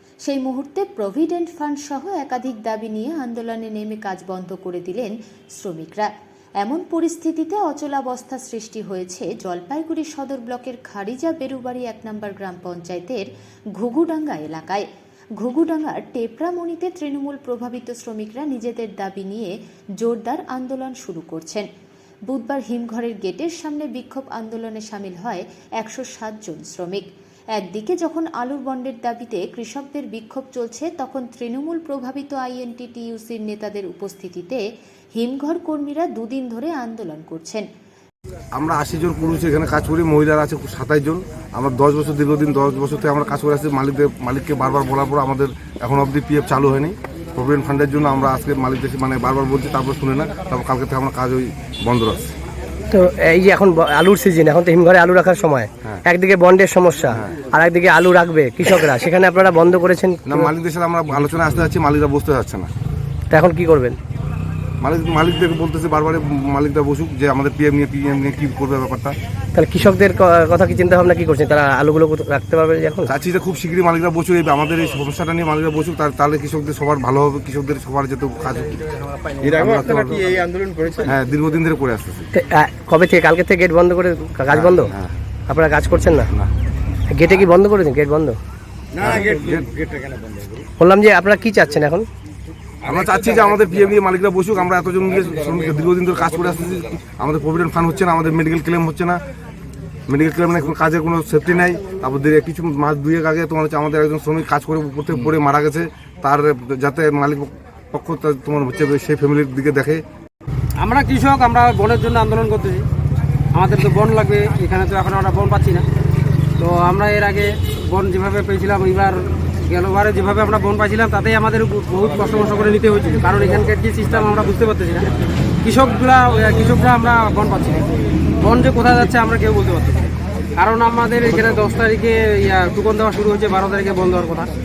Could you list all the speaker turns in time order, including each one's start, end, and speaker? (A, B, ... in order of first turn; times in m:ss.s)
0:00.2-0:06.1 A
0:06.6-0:13.2 A
0:13.8-0:14.8 A
0:15.4-0:21.7 A
0:22.3-0:34.6 A
0:35.2-0:37.6 A
0:38.6-0:52.2 B
0:52.9-1:00.5 C
1:00.3-1:02.7 B
1:03.3-1:04.0 C
1:04.8-1:09.1 B
1:09.5-1:13.1 C
1:13.1-1:20.3 B
1:19.4-1:21.0 D
1:21.0-1:22.3 B
1:22.3-1:24.9 C
1:24.5-1:25.1 B
1:25.5-1:26.3 C
1:27.1-1:28.4 C
1:29.0-1:29.7 B
1:29.1-1:30.5 D
1:30.8-1:32.1 C
1:32.8-1:39.2 B
1:40.1-1:50.0 B
1:50.8-1:52.8 E
1:53.5-1:55.8 E
1:56.6-2:05.1 E
2:05.6-2:14.5 E